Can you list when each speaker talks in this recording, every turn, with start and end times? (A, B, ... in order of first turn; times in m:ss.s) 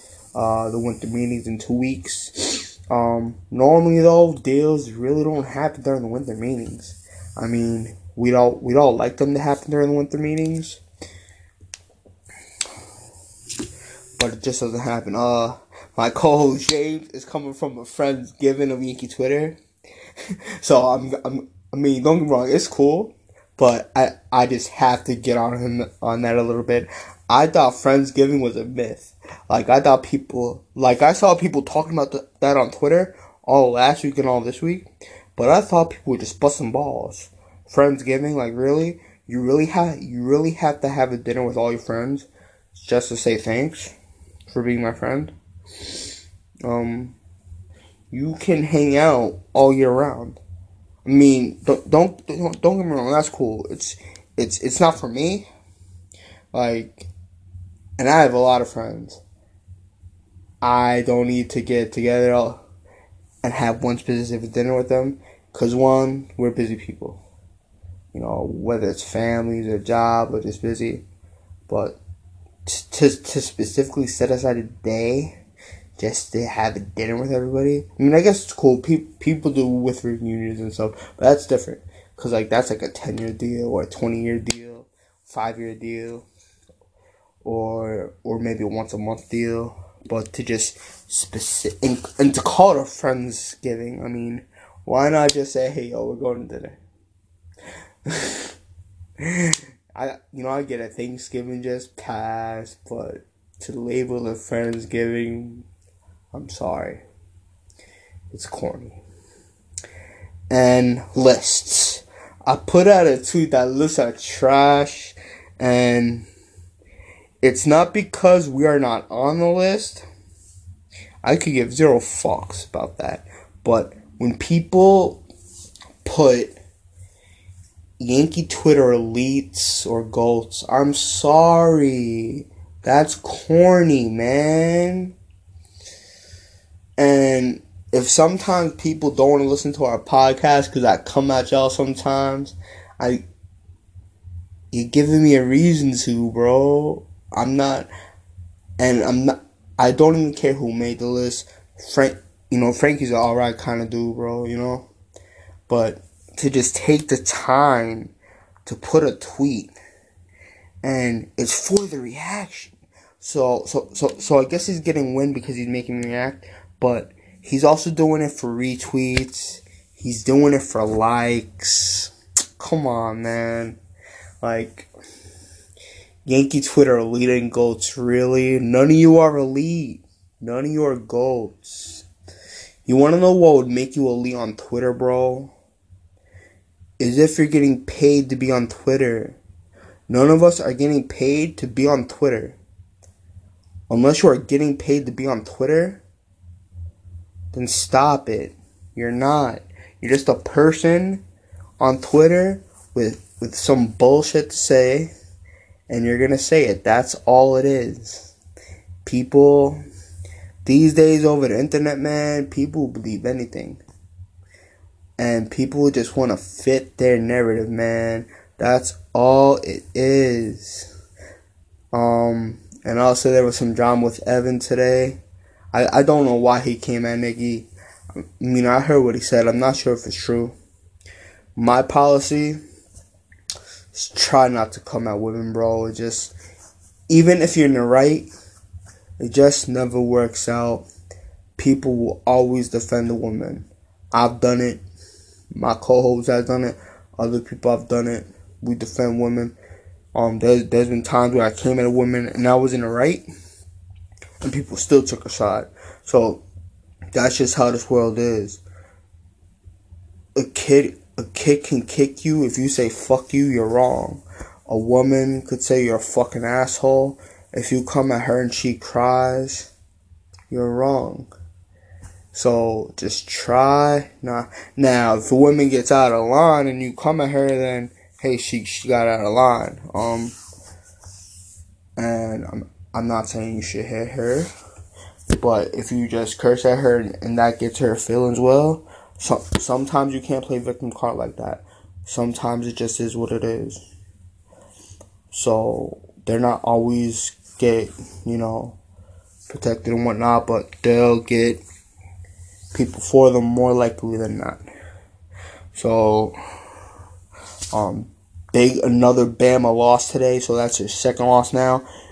0:00.3-0:10.8 A
0:14.2-0:19.6 A
0:20.6-0:43.9 A
0:44.5-0:45.3 A
0:46.6-0:47.2 A
0:48.1-0:50.4 A
0:51.0-0:55.5 A
0:56.5-0:57.1 A
0:58.0-0:59.2 A
1:00.6-1:02.6 A
1:03.4-1:07.2 A
1:08.1-1:11.0 A
1:11.7-1:12.0 A
1:12.6-1:15.4 A
1:16.0-1:26.2 A
1:27.4-1:36.8 A
1:38.0-1:38.5 A
1:39.2-1:45.6 A
1:46.3-1:47.0 A
1:48.3-1:49.0 A
1:50.5-1:56.3 A
1:57.4-2:00.0 A
2:01.2-2:05.2 A
2:06.0-2:06.6 A
2:08.0-2:15.1 A
2:17.0-2:23.2 A
2:24.7-2:27.9 A
2:28.8-2:34.9 A
2:35.7-2:38.1 A
2:38.6-2:39.7 A
2:40.8-2:53.8 A
2:54.4-2:54.9 A
2:56.2-3:02.0 A
3:02.8-3:05.5 A
3:07.0-3:09.4 A
3:10.1-3:12.6 A
3:13.9-3:16.0 A
3:17.5-3:21.2 A
3:21.8-3:25.1 A
3:25.9-3:28.3 A
3:29.0-3:29.8 A
3:30.6-3:33.8 A
3:35.2-3:40.9 A
3:41.9-3:45.2 A
3:45.7-3:50.5 A
3:51.6-3:52.6 A
3:53.9-3:56.3 A
3:57.1-3:58.3 A
3:59.2-4:00.8 A
4:01.6-4:04.8 A
4:05.5-4:09.6 A
4:10.1-4:13.2 A
4:14.4-4:16.4 A
4:17.1-4:18.6 A
4:20.3-4:29.7 A
4:30.5-4:31.3 A
4:32.3-4:40.4 A
4:42.0-4:44.5 A
4:45.3-4:53.8 A
4:55.3-4:58.8 A
4:59.5-5:01.6 A
5:02.7-5:04.6 A
5:05.7-5:06.3 A
5:07.7-5:11.8 A